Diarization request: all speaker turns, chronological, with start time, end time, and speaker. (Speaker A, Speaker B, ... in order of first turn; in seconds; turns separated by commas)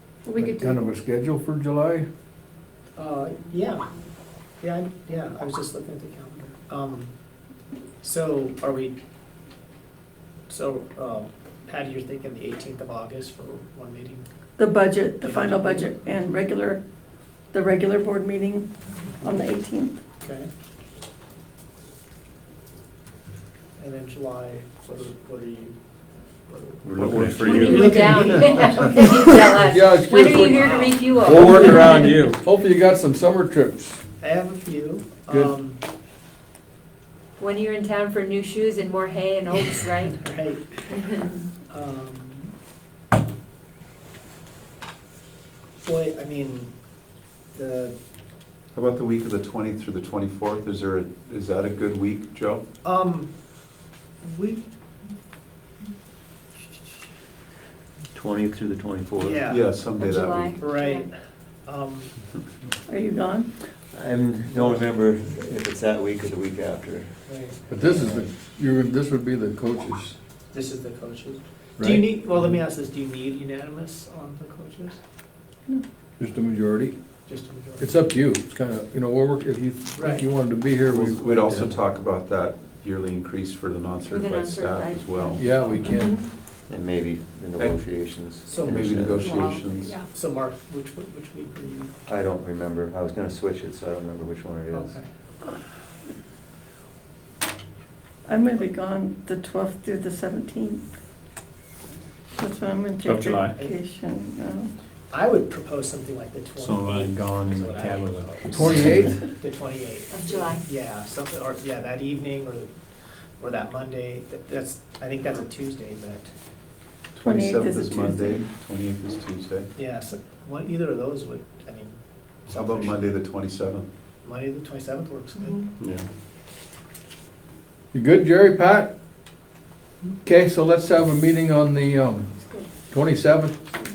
Speaker A: 0.3-0.8, Speaker B: 0.3-2.1, Speaker C: 3.0-3.9, Speaker C: 4.6-7.1, Speaker C: 8.0-9.0, Speaker C: 10.5-14.3, Speaker A: 14.6-16.8, Speaker C: 15.2-16.1, Speaker A: 17.5-18.7, Speaker A: 19.2-19.9, Speaker C: 20.2-20.5, Speaker C: 23.8-25.8, Speaker C: 26.5-26.9, Speaker D: 26.8-27.7, Speaker E: 26.9-28.3, Speaker F: 27.3-32.0, Speaker C: 27.7-28.8, Speaker B: 29.5-30.7, Speaker C: 30.6-31.0, Speaker E: 31.2-32.4, Speaker B: 31.3-34.0, Speaker C: 34.2-35.8, Speaker F: 37.4-40.2, Speaker C: 40.2-41.0, Speaker F: 41.0-41.4, Speaker C: 41.7-42.5, Speaker C: 45.8-46.7, Speaker C: 47.5-48.0, Speaker G: 48.8-52.6, Speaker C: 52.8-53.3, Speaker C: 54.2-54.6, Speaker D: 58.1-59.4, Speaker C: 59.2-59.7, Speaker G: 59.5-60.6, Speaker F: 59.9-61.1, Speaker C: 60.6-61.1, Speaker C: 61.6-62.1, Speaker A: 62.9-63.5, Speaker D: 63.9-67.1, Speaker C: 67.3-68.1, Speaker B: 67.7-70.2, Speaker C: 70.5-75.0, Speaker B: 71.8-72.1, Speaker B: 76.2-77.0, Speaker C: 77.3-78.0, Speaker B: 77.8-81.7, Speaker C: 80.0-80.3, Speaker G: 80.9-85.5, Speaker F: 84.1-86.2, Speaker B: 85.3-86.2, Speaker D: 86.7-89.3, Speaker C: 88.5-88.8, Speaker G: 88.6-89.9, Speaker F: 89.1-90.1, Speaker C: 90.0-91.9, Speaker D: 92.1-95.0, Speaker C: 94.7-95.1, Speaker A: 98.3-100.8, Speaker A: 102.4-104.7, Speaker E: 103.0-103.6, Speaker C: 105.1-112.8, Speaker E: 106.6-109.1, Speaker B: 108.5-109.3, Speaker F: 110.1-110.6, Speaker C: 113.4-116.3, Speaker G: 117.1-119.7, Speaker A: 117.2-118.5, Speaker C: 119.8-123.2, Speaker G: 122.5-123.9, Speaker C: 124.2-125.6, Speaker F: 125.4-125.7, Speaker E: 125.8-126.1, Speaker B: 127.9-128.9, Speaker B: 130.2-132.3, Speaker B: 132.9-133.6